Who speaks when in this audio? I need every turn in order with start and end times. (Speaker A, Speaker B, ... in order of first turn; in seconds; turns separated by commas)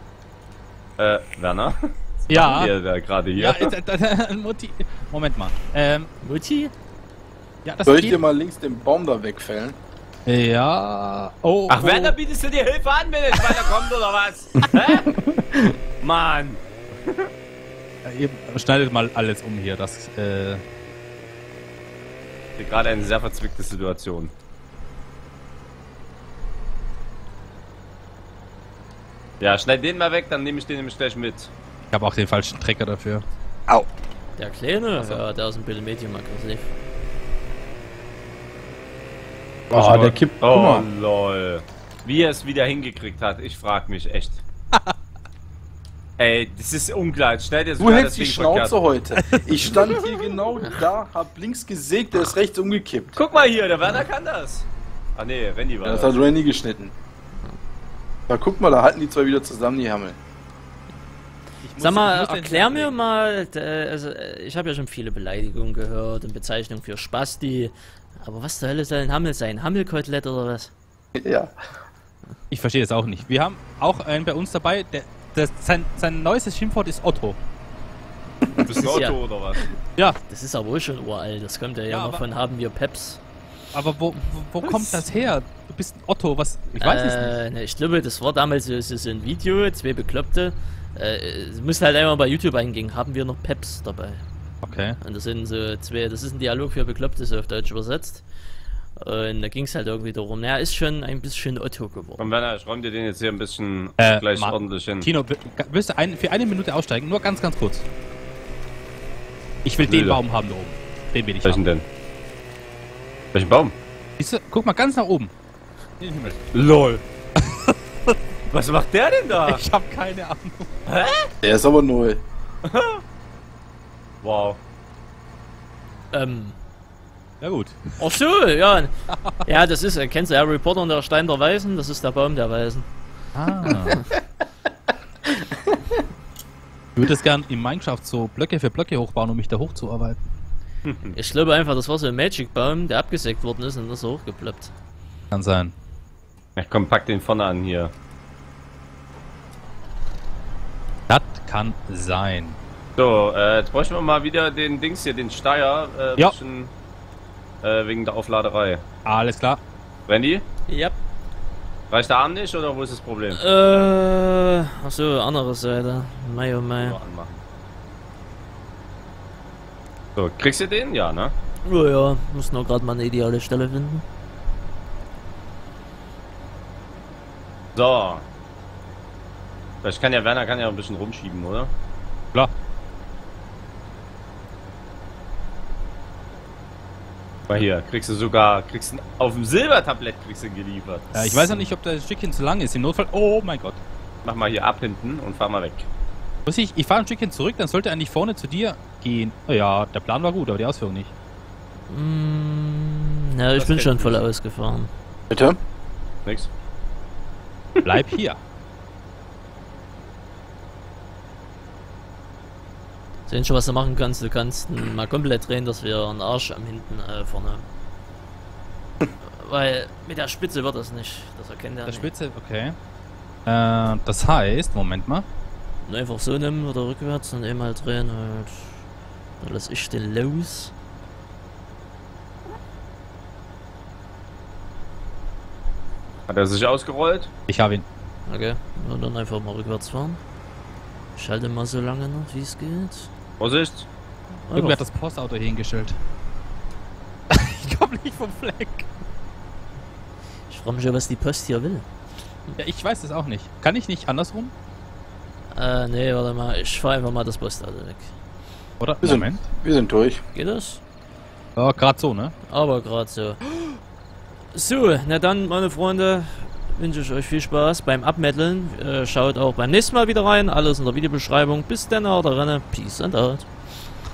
Speaker A: 1.0-3.7, Speaker B: 2.3-2.7, Speaker B: 3.4-6.1, Speaker C: 6.2-6.7, Speaker B: 7.7-8.2, Speaker D: 7.8-9.8, Speaker B: 10.3-12.2, Speaker A: 11.7-15.1, Speaker D: 15.2-15.7, Speaker A: 16.0-17.3, Speaker B: 18.0-20.6, Speaker A: 22.6-24.3, Speaker A: 29.4-31.5, Speaker B: 31.9-33.2, Speaker C: 34.4-36.7, Speaker D: 39.7-40.9, Speaker A: 39.7-44.4, Speaker A: 46.2-48.8, Speaker D: 47.8-53.2, Speaker B: 49.2-50.1, Speaker A: 53.1-56.2, Speaker D: 55.8-56.9, Speaker D: 58.3-60.2, Speaker B: 61.6-63.0, Speaker C: 61.8-70.7, Speaker D: 71.2-71.5, Speaker B: 72.5-77.4, Speaker A: 78.6-79.6, Speaker C: 78.8-79.2, Speaker C: 80.2-83.2, Speaker B: 81.9-82.2, Speaker B: 83.7-87.3, Speaker C: 86.8-94.2, Speaker B: 94.6-95.0, Speaker C: 95.0-98.2, Speaker C: 99.0-102.3, Speaker A: 102.2-105.1, Speaker B: 104.0-107.8, Speaker B: 109.6-111.6, Speaker A: 109.8-110.2, Speaker A: 111.4-111.8, Speaker A: 113.3-113.8, Speaker B: 114.2-115.3, Speaker B: 116.0-116.5, Speaker A: 116.5-117.0, Speaker B: 117.4-118.2, Speaker A: 118.5-119.6, Speaker B: 119.5-120.7, Speaker A: 120.9-121.3, Speaker D: 121.4-122.2, Speaker A: 122.7-123.0, Speaker A: 124.2-124.6, Speaker C: 126.1-126.6, Speaker B: 127.4-128.0, Speaker C: 128.0-128.9, Speaker C: 129.4-132.9, Speaker B: 133.3-133.9, Speaker B: 137.0-140.2, Speaker A: 140.9-141.2, Speaker C: 141.1-144.7, Speaker B: 145.3-145.8, Speaker A: 146.6-147.9, Speaker B: 151.1-152.6, Speaker A: 153.0-156.7, Speaker A: 157.6-158.8, Speaker B: 159.1-159.6, Speaker A: 160.1-160.4, Speaker C: 160.7-161.0, Speaker A: 161.9-163.4, Speaker C: 163.3-167.0, Speaker A: 166.8-167.4, Speaker A: 170.2-171.3, Speaker C: 171.7-174.0, Speaker A: 177.8-178.3, Speaker A: 179.8-181.7, Speaker A: 187.5-191.7, Speaker B: 191.1-193.8, Speaker A: 194.2-195.9, Speaker B: 196.5-201.1, Speaker C: 201.9-204.9, Speaker A: 203.6-204.2, Speaker D: 205.3-205.6, Speaker A: 206.3-206.5, Speaker B: 207.8-208.4, Speaker C: 213.3-217.7, Speaker C: 219.2-222.1, Speaker B: 221.9-222.8, Speaker B: 223.5-225.3, Speaker C: 225.9-228.8, Speaker C: 229.4-230.7, Speaker A: 236.3-237.3, Speaker B: 237.5-237.8, Speaker C: 238.3-240.2, Speaker C: 241.2-243.1, Speaker A: 243.4-243.9, Speaker C: 244.5-244.8, Speaker B: 244.5-246.0, Speaker B: 247.3-248.9, Speaker C: 250.5-251.9, Speaker B: 252.6-254.5, Speaker C: 255.5-258.1, Speaker B: 258.8-259.4, Speaker D: 259.0-260.2, Speaker C: 260.3-260.8, Speaker B: 261.6-262.3, Speaker C: 262.5-263.4, Speaker C: 264.5-273.5